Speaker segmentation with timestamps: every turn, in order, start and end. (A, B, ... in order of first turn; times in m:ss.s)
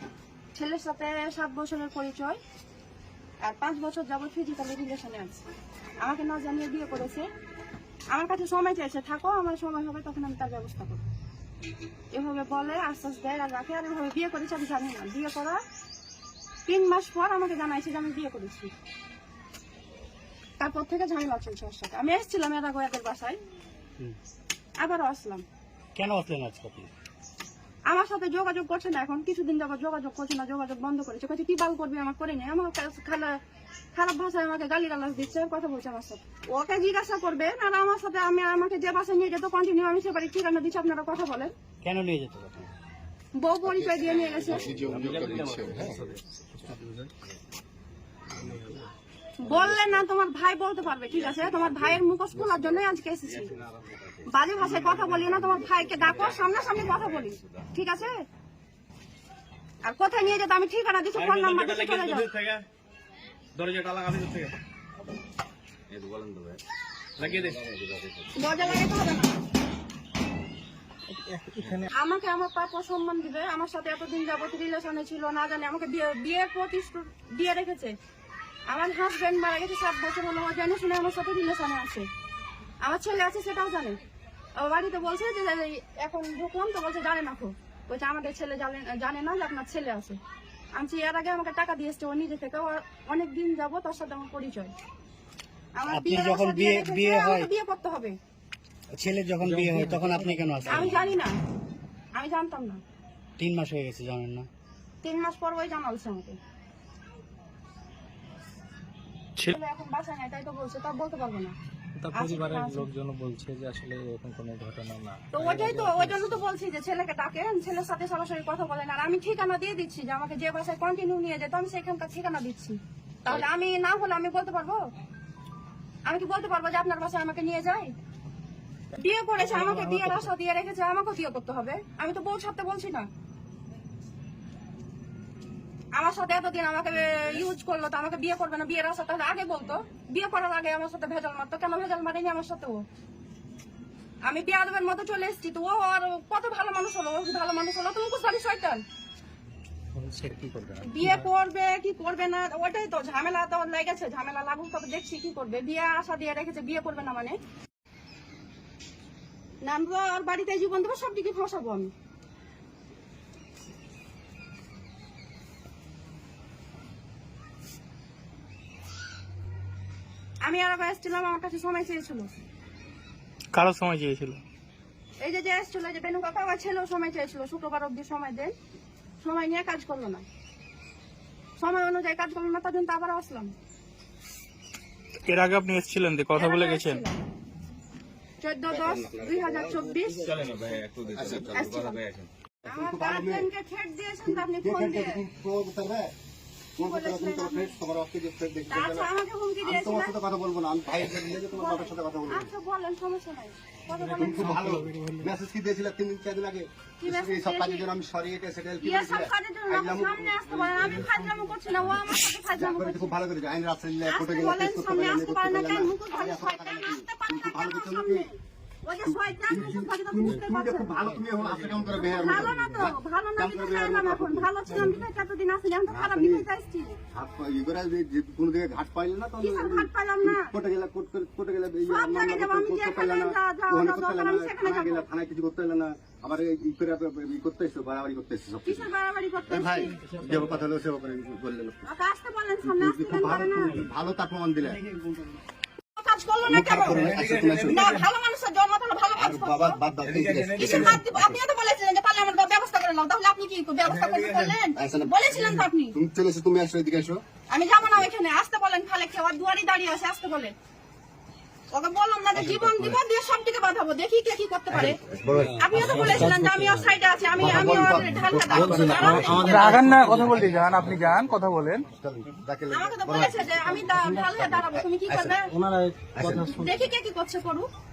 0:00.5-0:02.4 A
0:03.4-0:05.4 A
0:06.0-0:07.3 A
0:08.1-0:11.1 A
0:12.1-0:15.6 A
0:16.7-0:18.7 A
0:20.6-0:23.4 A
0:24.8-0:25.4 A
0:26.0-0:26.9 B
0:27.9-0:33.4 A
0:33.9-0:41.5 A
0:41.8-0:42.7 B
0:43.4-0:44.7 A
0:43.6-0:46.1 C
0:44.5-0:46.0 D
0:44.7-0:47.1 E
0:48.4-0:48.8 E
0:49.4-0:53.5 A
0:51.2-0:51.5 D
0:54.3-0:58.1 A
0:55.8-0:57.3 D
0:59.8-1:02.3 A
1:01.2-1:02.6 D
1:01.3-1:02.3 E
1:03.6-1:04.5 D
1:05.9-1:06.6 D
1:07.2-1:07.6 E
1:07.2-1:08.8 D
1:08.4-1:09.4 A
1:11.2-1:11.9 E
1:11.6-1:11.8 D
1:11.9-1:17.9 A
1:18.7-1:22.1 A
1:22.8-1:24.0 A
1:24.6-1:30.2 A
1:30.8-1:34.7 A
1:35.8-1:38.2 A
1:35.9-1:37.5 B
1:38.9-1:41.0 B
1:39.4-1:40.7 E
1:40.6-1:41.4 A
1:42.2-1:42.8 A
1:43.4-1:44.5 B
1:45.0-1:46.4 A
1:49.4-1:51.6 A
1:52.0-1:56.4 E
1:52.1-1:52.9 A
1:55.3-2:04.8 A
2:06.1-2:07.9 A
2:08.9-2:13.1 A
2:09.5-2:10.1 E
2:15.9-2:22.8 A
2:24.2-2:28.8 A
2:30.0-2:31.0 B
2:30.3-2:31.2 E
2:30.8-2:37.4 A
2:39.6-2:41.9 A
2:50.4-2:52.3 A
2:53.5-2:54.4 F
2:55.2-2:58.6 A
2:59.2-3:00.3 A
3:01.6-3:03.5 A
3:05.3-3:07.0 F
3:06.3-3:07.2 A
3:08.4-3:10.4 A
3:08.7-3:09.7 C
3:10.1-3:12.3 D
3:11.1-3:11.7 C
3:11.4-3:12.0 A
3:12.6-3:13.5 C
3:12.6-3:15.2 A
3:14.2-3:16.1 C
3:16.8-3:19.1 C
3:16.8-3:17.8 A
3:18.7-3:20.2 A
3:19.6-3:22.5 C
3:21.5-3:24.7 A
3:23.9-3:25.3 E
3:24.2-3:31.3 C
3:27.0-3:27.9 A
3:28.8-3:33.2 A
3:32.5-3:38.3 C
3:34.0-3:41.2 A
3:39.0-3:45.0 C
3:41.5-3:41.9 E
3:41.9-3:47.0 A
3:45.9-3:46.5 C
3:47.1-3:58.9 C
3:49.4-3:50.5 A
3:51.8-3:55.1 A
3:58.6-4:00.0 A
3:59.5-4:01.8 C
4:01.9-4:03.8 A
4:02.6-4:04.8 C
4:06.0-4:09.8 A
4:06.4-4:07.9 C
4:07.0-4:08.0 E
4:09.2-4:11.4 C
4:10.1-4:10.9 E
4:10.2-4:10.9 D
4:10.6-4:16.0 A
4:13.9-4:14.5 E
4:14.8-4:17.2 C
4:17.5-4:20.5 A
4:21.7-4:25.0 A
4:22.4-4:23.0 C
4:24.7-4:26.3 C
4:25.6-4:30.0 A
4:25.7-4:26.8 E
4:27.4-4:31.1 C
4:28.8-4:30.3 D
4:29.2-4:29.4 E
4:29.4-4:31.9 F
4:31.9-4:35.4 C
4:32.7-4:35.6 A
4:35.6-4:36.4 D
4:35.6-4:36.5 E
4:36.2-4:36.7 C
4:36.5-4:37.7 A